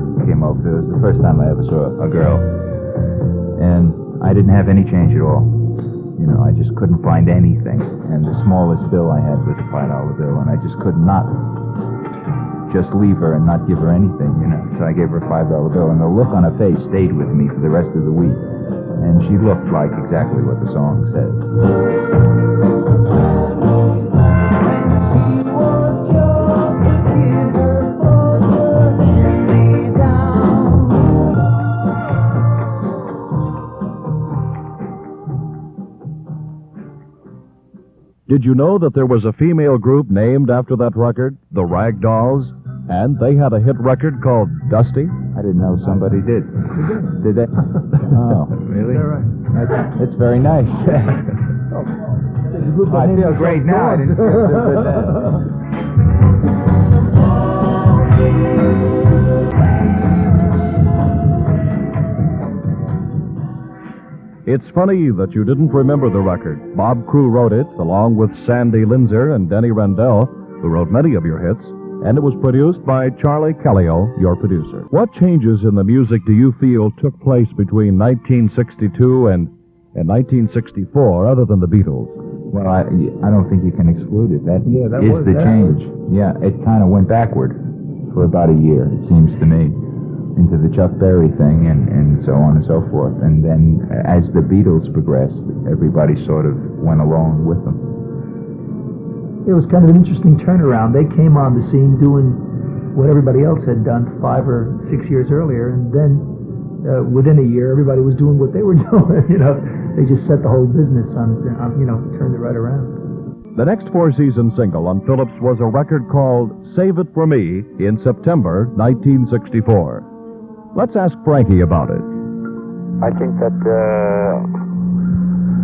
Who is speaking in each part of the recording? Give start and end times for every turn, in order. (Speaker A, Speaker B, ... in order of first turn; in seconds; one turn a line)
Speaker A: 0.1-2.5
Speaker A: 3.6-5.5
Speaker A: 6.2-11.4
Speaker A: 12.7-18.4
Speaker A: 19.0-21.4
Speaker B: 24.9-30.8
Speaker C: 38.3-45.1
Speaker A: 45.3-51.4
Speaker D: 46.8-47.1
Speaker D: 48.9-49.3
Speaker D: 51.7-54.8
Speaker A: 52.9-55.4
Speaker C: 64.4-82.2
Speaker A: 82.5-89.8
Speaker D: 84.7-85.8
Speaker A: 90.3-97.8
Speaker D: 99.4-106.3
Speaker D: 106.8-113.0
Speaker C: 113.5-120.0
Speaker C: 120.7-122.1
Speaker B: 123.0-124.5